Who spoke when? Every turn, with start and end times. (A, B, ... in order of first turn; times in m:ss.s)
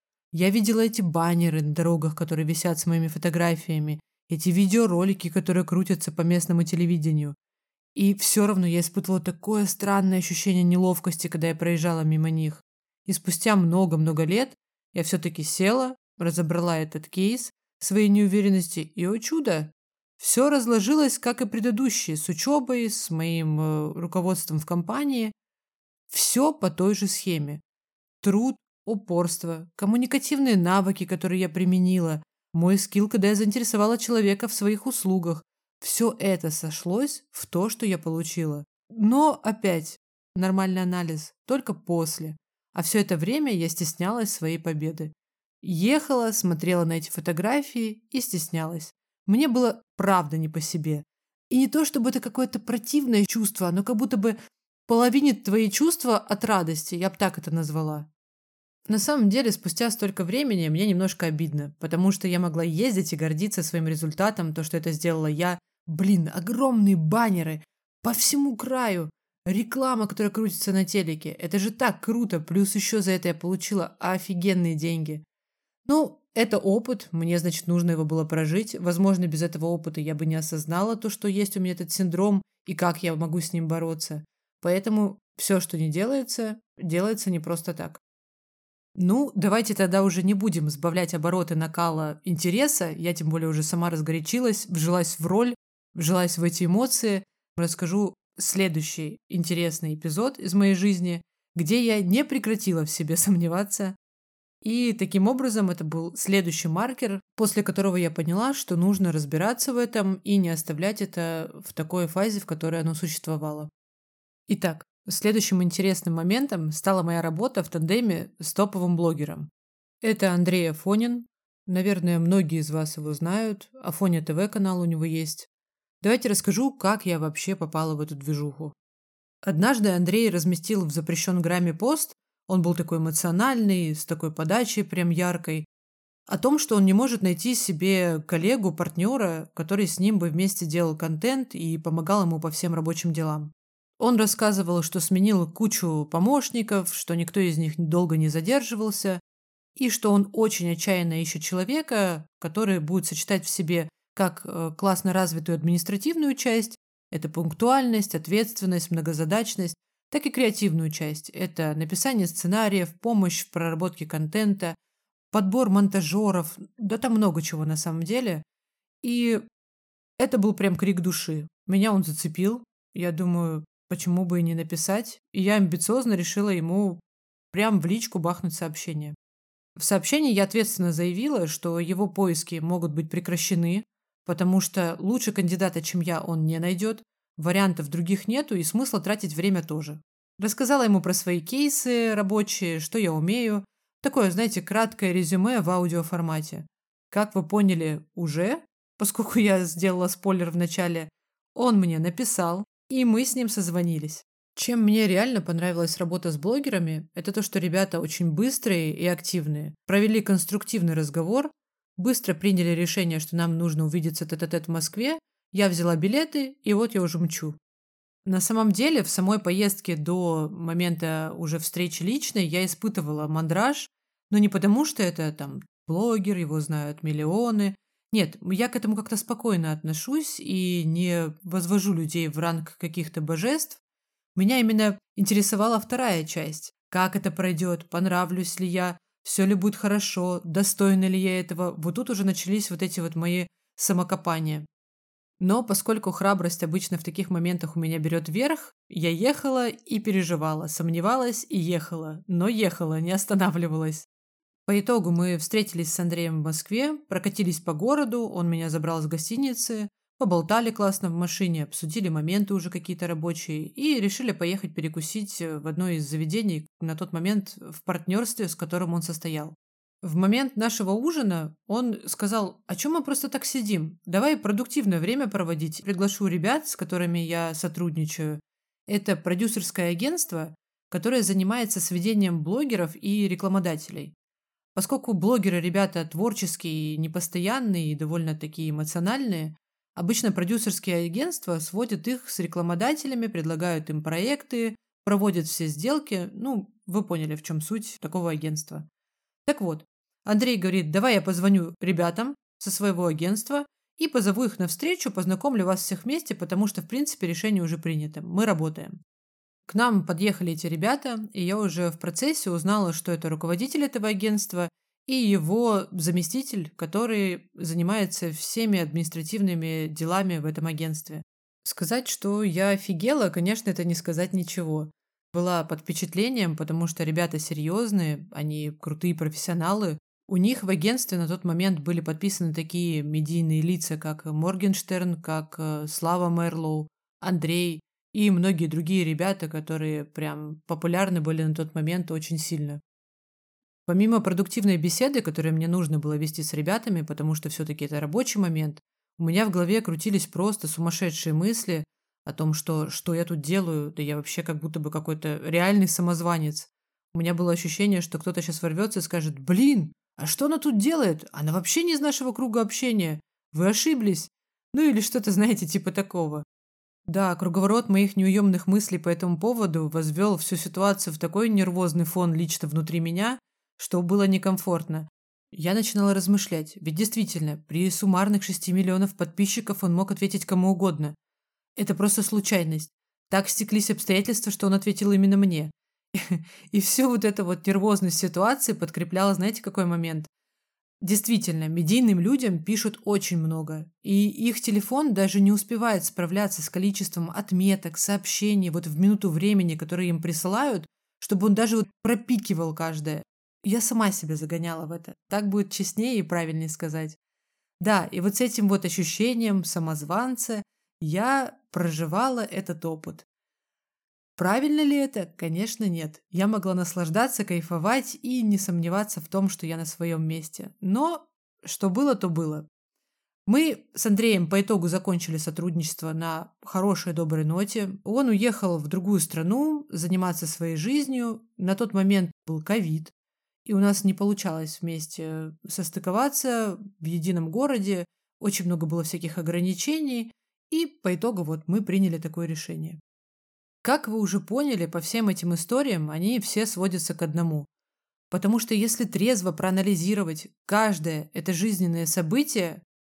0:00.3-0:07.4 A
0:07.9-0:25.3 A
0:26.1-0:27.6 A
0:28.2-0:54.4 A
0:54.9-0:58.1 A
0:58.9-1:15.2 A
1:15.8-1:28.0 A
1:29.0-1:44.0 A
1:44.6-1:53.7 A
1:54.5-1:59.5 A
2:00.0-2:05.5 A
2:06.0-2:08.7 A
2:09.4-2:15.7 A
2:16.3-2:29.2 A
2:29.8-2:44.8 A
2:45.3-2:48.4 A
2:49.0-2:49.4 A
2:50.2-2:59.2 A
2:59.8-3:37.6 A
3:38.2-3:53.8 A
3:54.4-4:04.7 A
4:05.4-4:14.1 A
4:14.6-4:44.1 A
4:44.7-4:58.9 A
4:59.4-5:09.0 A
5:09.7-5:42.8 A
5:43.8-6:06.4 A
6:07.1-6:21.2 A
6:21.8-6:30.3 A
6:31.0-6:47.2 A
6:47.8-6:53.2 A
6:54.4-7:02.7 A
7:03.4-7:13.1 A
7:13.6-7:23.0 A
7:23.8-7:27.7 A
7:28.3-7:32.8 A